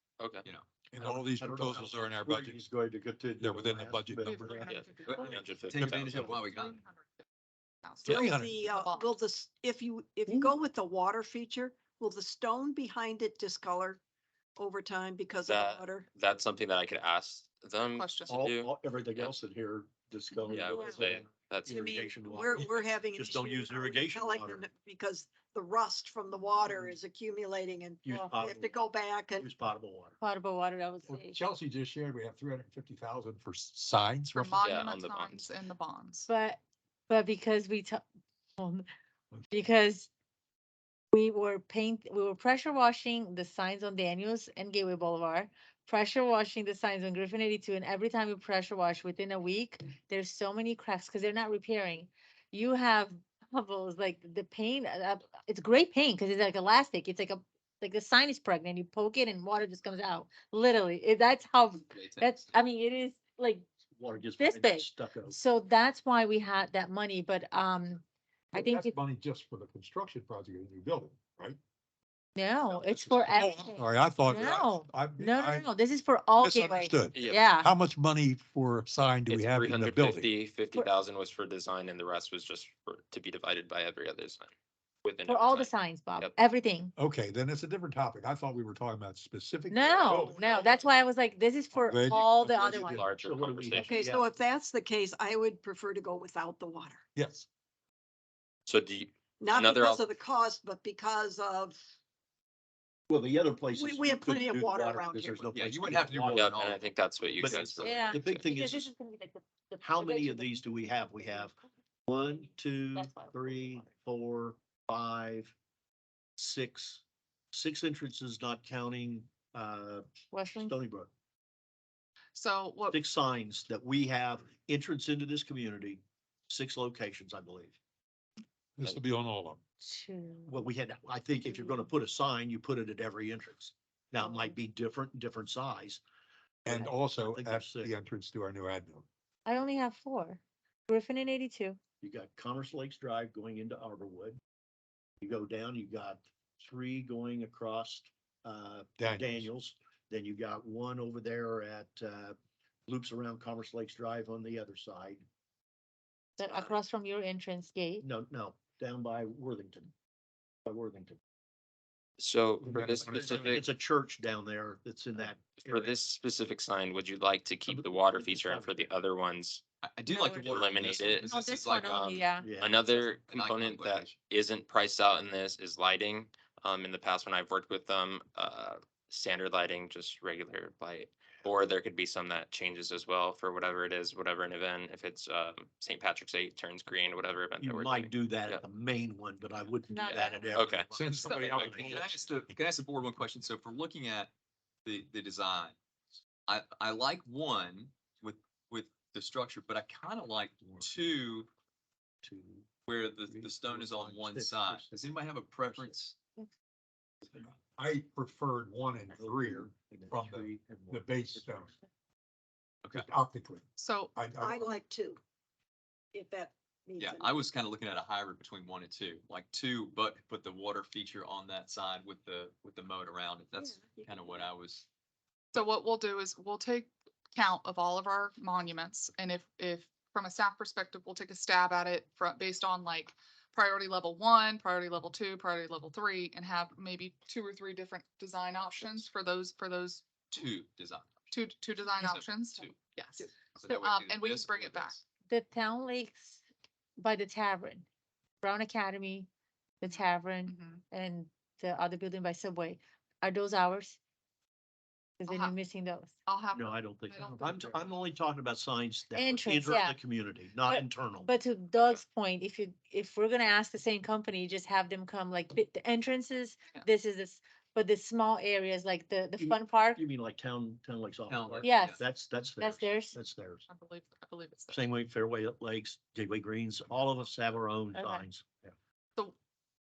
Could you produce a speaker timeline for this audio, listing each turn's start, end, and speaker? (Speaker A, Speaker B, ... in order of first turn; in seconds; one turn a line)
Speaker A: 0.2-0.5
Speaker B: 0.9-2.6
Speaker C: 1.0-4.7
Speaker B: 3.4-4.7
Speaker D: 4.2-5.5
Speaker A: 4.7-6.4
Speaker E: 5.1-6.8
Speaker D: 6.3-7.2
Speaker D: 7.8-9.1
Speaker B: 8.1-8.6
Speaker F: 8.1-14.0
Speaker F: 14.6-16.1
Speaker A: 15.4-19.3
Speaker D: 17.9-18.3
Speaker C: 18.3-24.6
Speaker A: 20.4-21.9
Speaker F: 20.7-21.0
Speaker F: 21.7-29.5
Speaker C: 26.7-26.9
Speaker C: 28.0-28.8
Speaker C: 29.4-30.2
Speaker G: 30.2-31.4
Speaker B: 31.1-34.6
Speaker D: 34.4-36.3
Speaker A: 34.6-35.5
Speaker G: 36.3-38.0
Speaker G: 38.6-38.9
Speaker G: 39.5-40.1
Speaker G: 41.1-63.7
Speaker E: 61.9-62.5
Speaker C: 64.0-65.4
Speaker G: 64.4-68.0
Speaker B: 68.5-71.6
Speaker G: 68.5-69.0
Speaker G: 72.4-77.7
Speaker B: 72.9-75.7
Speaker B: 76.4-80.3
Speaker F: 76.6-77.0
Speaker A: 77.1-77.5
Speaker A: 79.3-84.5
Speaker A: 85.0-86.3
Speaker G: 85.3-86.9
Speaker B: 87.0-90.8
Speaker G: 89.7-93.0
Speaker B: 91.7-93.1
Speaker A: 92.4-94.0
Speaker C: 92.5-94.3
Speaker F: 93.8-97.0
Speaker B: 97.2-97.5
Speaker A: 98.7-100.0
Speaker F: 99.4-101.8
Speaker C: 103.1-106.6
Speaker F: 103.7-105.5
Speaker E: 105.3-106.8
Speaker A: 106.3-108.5
Speaker E: 107.4-107.9
Speaker C: 107.4-108.9
Speaker G: 107.8-111.5
Speaker C: 109.8-111.5
Speaker C: 112.1-115.5
Speaker G: 112.9-113.8
Speaker C: 116.4-120.1
Speaker G: 120.3-120.8
Speaker C: 120.6-121.1
Speaker D: 122.3-123.0
Speaker C: 122.9-127.8
Speaker B: 128.8-129.6
Speaker G: 129.8-130.7
Speaker C: 130.5-136.0
Speaker G: 131.4-131.9
Speaker G: 134.2-134.5
Speaker B: 136.7-139.1
Speaker C: 136.7-138.0
Speaker G: 139.5-141.8
Speaker C: 142.0-144.4
Speaker C: 145.2-152.4
Speaker B: 149.0-149.5
Speaker C: 152.9-155.2
Speaker G: 156.4-158.1
Speaker A: 156.5-156.7
Speaker C: 158.0-159.9
Speaker C: 160.7-161.2
Speaker A: 162.2-163.6
Speaker B: 162.6-163.6
Speaker C: 162.6-166.0
Speaker A: 165.6-169.6
Speaker C: 167.7-168.9
Speaker E: 169.8-172.2
Speaker G: 170.1-170.6
Speaker A: 170.4-188.6
Speaker G: 171.2-172.5
Speaker C: 172.4-172.8
Speaker E: 172.9-174.2
Speaker C: 187.6-192.2
Speaker G: 189.9-190.4
Speaker A: 190.5-190.9
Speaker B: 190.9-192.3
Speaker D: 191.2-191.8
Speaker E: 191.6-194.3
Speaker E: 194.8-195.8
Speaker E: 196.5-201.5
Speaker C: 202.2-202.7
Speaker E: 202.9-206.2
Speaker C: 203.2-204.9
Speaker B: 207.3-211.7
Speaker C: 209.1-211.7
Speaker B: 212.9-214.7
Speaker D: 213.8-214.1
Speaker F: 214.4-215.2
Speaker F: 216.1-217.5
Speaker E: 217.0-224.9
Speaker F: 223.6-224.5
Speaker D: 225.5-240.1
Speaker E: 240.3-241.3
Speaker D: 241.3-245.0
Speaker E: 242.0-245.0
Speaker G: 245.3-246.4
Speaker G: 247.0-247.9
Speaker G: 248.4-249.3
Speaker G: 249.8-254.0
Speaker D: 249.9-250.8
Speaker G: 255.2-256.1
Speaker D: 255.3-255.6
Speaker D: 256.3-257.9
Speaker C: 256.5-261.3
Speaker G: 259.1-260.0
Speaker G: 260.7-270.0
Speaker C: 269.4-273.7
Speaker E: 271.3-272.0
Speaker G: 271.6-272.0
Speaker G: 272.6-273.1
Speaker D: 273.7-274.9
Speaker C: 274.7-278.7
Speaker G: 277.9-278.2